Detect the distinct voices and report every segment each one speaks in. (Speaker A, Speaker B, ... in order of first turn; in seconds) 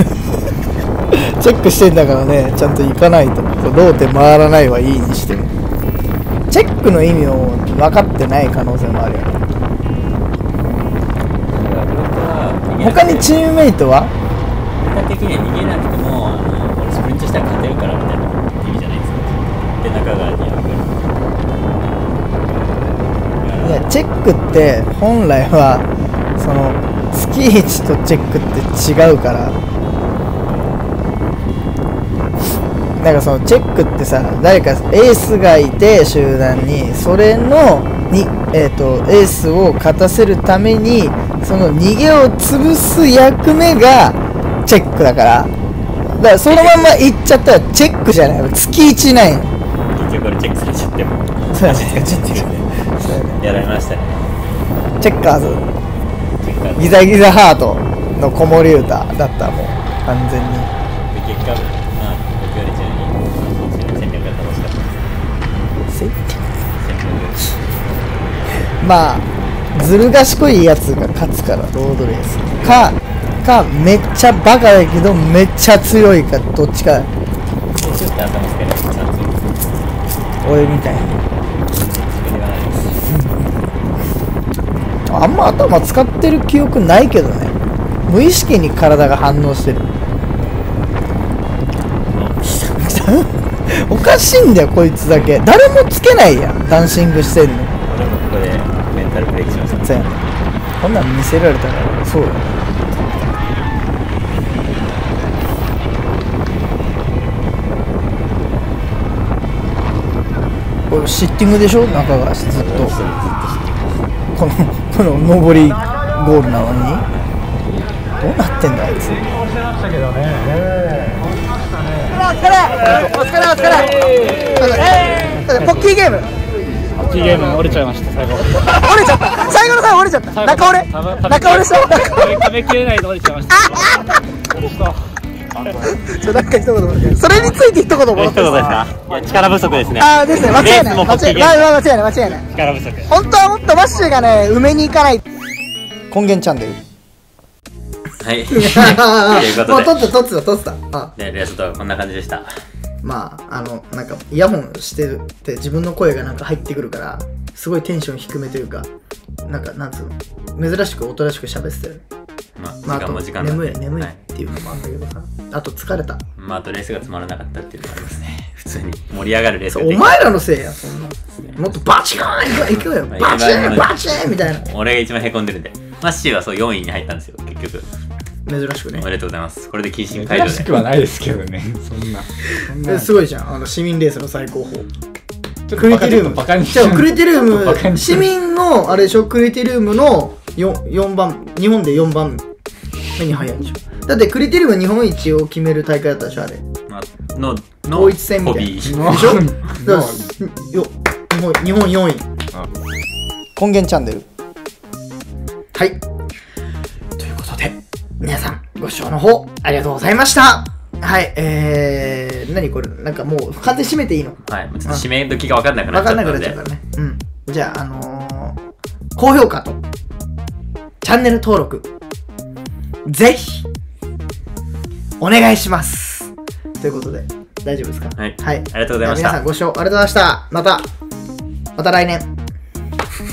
Speaker A: 1.1-5.5, 6.5-9.3, 12.8-14.1, 23.6-25.9, 26.4-29.6, 33.0-45.5, 46.2-49.5, 51.5-53.4, 55.0-55.7, 56.8-60.7, 65.9-66.5, 68.8-77.1, 80.4-81.2, 83.1-83.5, 85.1-87.5, 88.1-89.9, 92.8-97.7, 99.8-100.2, 100.8-102.7, 110.9-113.0, 114.3-117.0, 118.2-119.2, 122.7-126.3, 128.6-132.7, 133.5-134.2, 135.7-138.8, 140.0-142.5, 143.1-145.2, 146.1-146.8, 148.5-151.1, 153.0-158.9, 159.4-162.0, 162.8-166.2, 169.7-174.7, 178.5-179.1, 182.6-184.9, 185.7-192.4, 193.2-196.6, 197.9-202.3, 203.6-204.2, 207.3-207.7, 208.2-215.1, 215.9-218.6, 219.2-219.8, 221.0-221.9, 223.1-223.7, 225.2-226.3, 226.8-230.8, 231.8-232.3
Speaker B: 11.5-13.5, 14.8-21.2, 23.4-23.9, 46.5-47.1, 49.9-54.4, 56.4-57.1, 61.1-65.1, 66.7-67.6, 72.6-73.0, 77.7-79.7, 81.8-83.1, 92.1-93.1, 97.9-100.3, 112.5-114.1, 138.1-141.7, 142.5-143.1, 148.2-150.1, 151.2-152.5, 162.6-164.2, 166.4-170.5, 171.4-171.7, 173.1-177.9, 178.9-180.9, 196.9-199.3, 207.2-207.7, 214.5-216.6, 228.2-229.4
Speaker C: 127.0-128.7, 130.5-133.6, 180.1-183.2, 185.7-188.3, 198.9-200.3